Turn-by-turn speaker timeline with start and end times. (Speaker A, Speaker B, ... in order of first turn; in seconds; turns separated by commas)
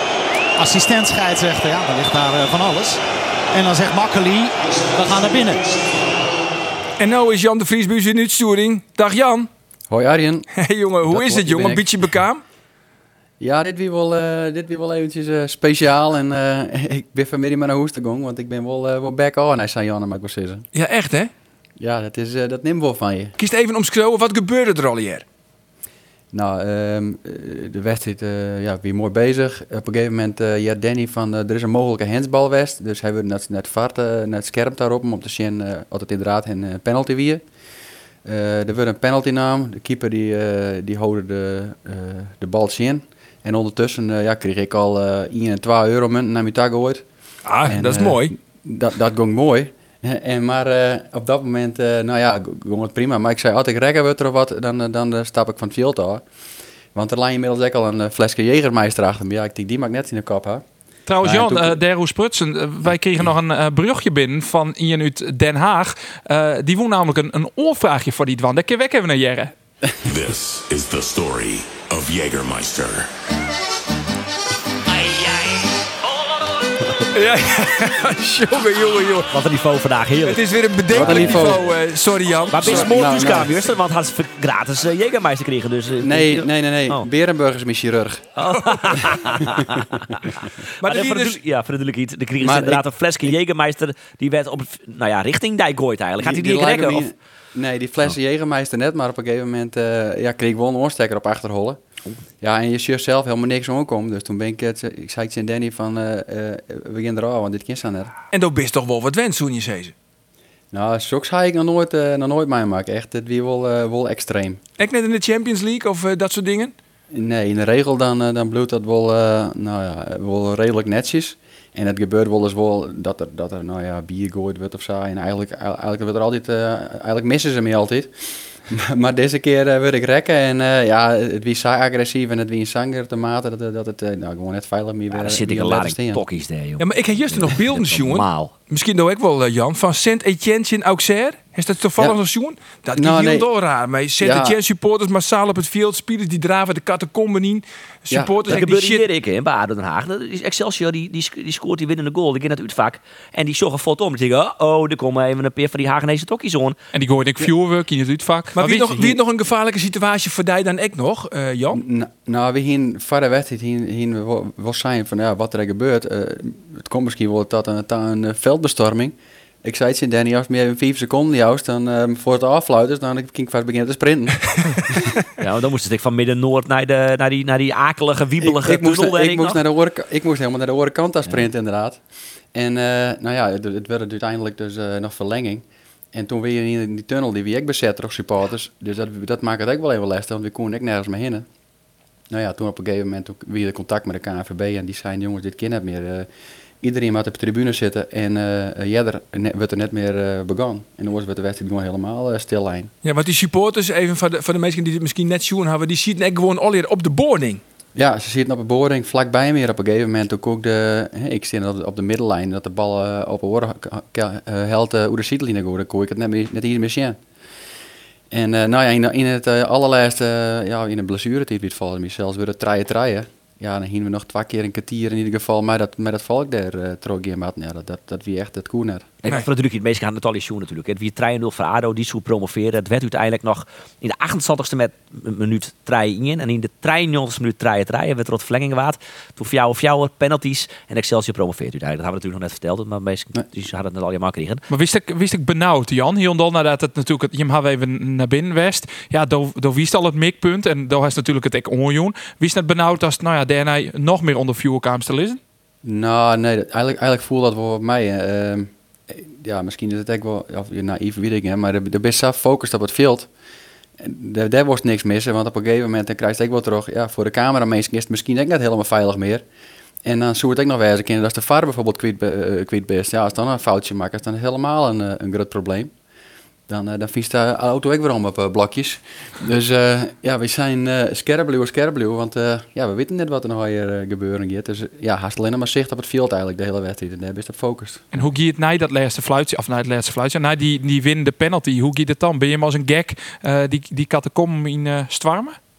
Speaker A: 0.6-5.8, Speaker B: 7.0-9.5, Speaker C: 9.9-10.5, Speaker B: 10.6-12.4, Speaker C: 11.1-11.9, Speaker C: 13.4-20.7, Speaker B: 20.7-21.3, Speaker C: 21.8-23.4, Speaker B: 23.4-25.2, Speaker C: 26.3-37.4, Speaker C: 38.2-47.0, Speaker B: 47.5-48.3, Speaker C: 47.7-56.2, Speaker C: 56.9-60.6, Speaker D: 61.1-69.5, Speaker C: 61.2-61.8, Speaker E: 70.0-73.1, Speaker B: 77.1-79.4, Speaker F: 79.3-81.6, Speaker B: 80.2-83.5, Speaker C: 80.9-81.6, Speaker F: 82.5-87.0, Speaker C: 82.6-83.5, Speaker C: 86.0-88.3, Speaker F: 88.4-97.1, Speaker B: 88.5-88.8, Speaker B: 90.8-91.4, Speaker C: 92.4-92.8, Speaker C: 96.2-101.8, Speaker C: 102.4-108.1, Speaker B: 108.3-109.9, Speaker C: 110.7-114.6, Speaker B: 114.8-116.7, Speaker C: 117.1-136.2, Speaker F: 135.1-138.6, Speaker B: 136.8-149.1, Speaker C: 142.9-143.5, Speaker C: 144.2-144.6, Speaker F: 148.4-156.8, Speaker D: 156.9-159.1, Speaker B: 158.6-161.8, Speaker C: 161.7-175.1, Speaker F: 175.4-179.6, Speaker C: 178.4-182.0, Speaker C: 182.5-191.4, Speaker C: 192.3-196.3, Speaker C: 196.8-202.9, Speaker B: 203.0-207.6, Speaker C: 207.9-217.2, Speaker C: 218.3-229.1, Speaker F: 229.2-244.7, Speaker D: 244.7-255.4, Speaker C: 255.8-263.3, Speaker C: 264.0-269.4, Speaker C: 270.0-275.9, Speaker C: 276.7-288.0, Speaker D: 288.1-295.6